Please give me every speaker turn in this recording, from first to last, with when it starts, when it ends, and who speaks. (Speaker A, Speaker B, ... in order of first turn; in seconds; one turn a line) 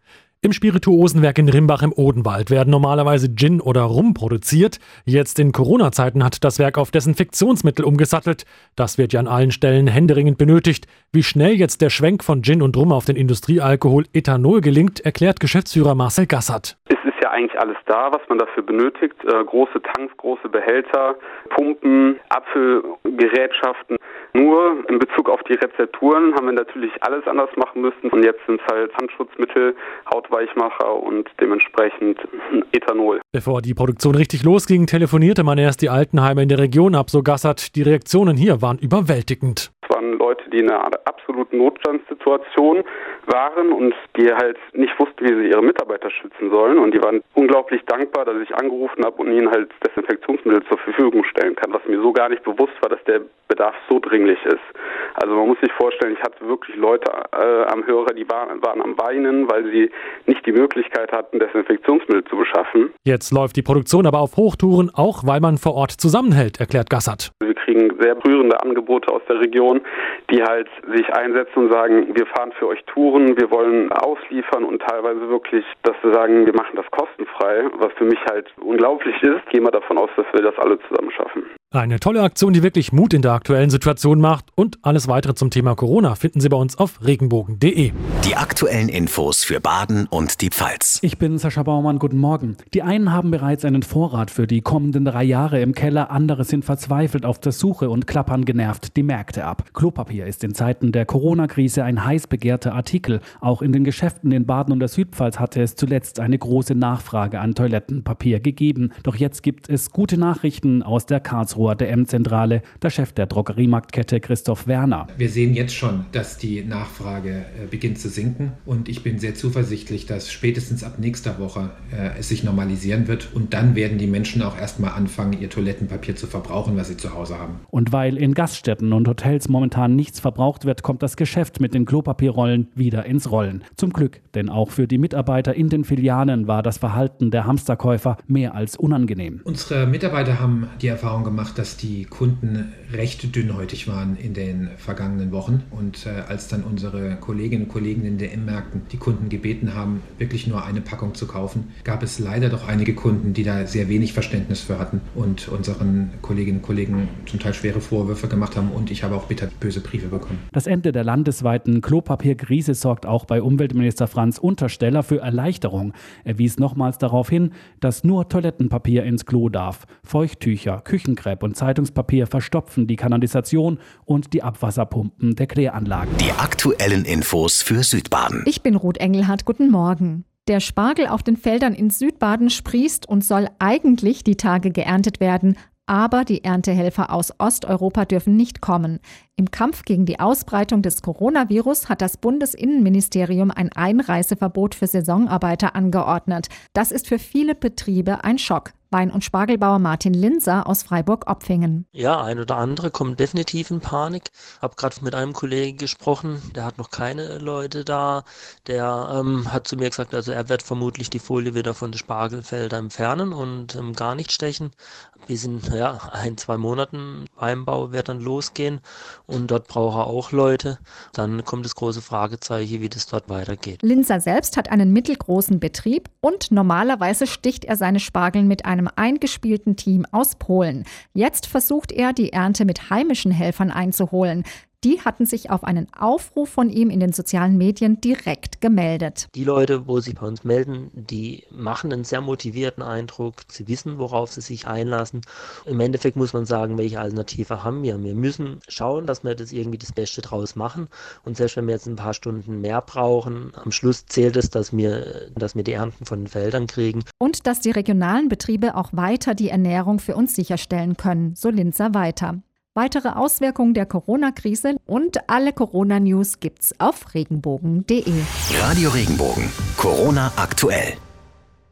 Speaker A: 0.4-16.7
Speaker B: 16.9-33.2
Speaker A: 33.3-39.7
Speaker B: 39.8-62.9
Speaker A: 63.0-67.3
Speaker B: 67.4-81.5
Speaker A: 81.7-87.9
Speaker C: 88.2-91.0
Speaker D: 91.0-115.1
Speaker E: 115.1-127.6
Speaker D: 127.7-139.4
Speaker E: 139.4-160.4
Speaker D: 160.5-176.2
Speaker C: 176.2-178.4
Speaker F: 178.4-201.8
Speaker G: 201.9-223.8
Speaker F: 223.8-239.3
Speaker G: 239.3-257.1
Speaker F: 257.2-268.3
Speaker C: 268.5-271.0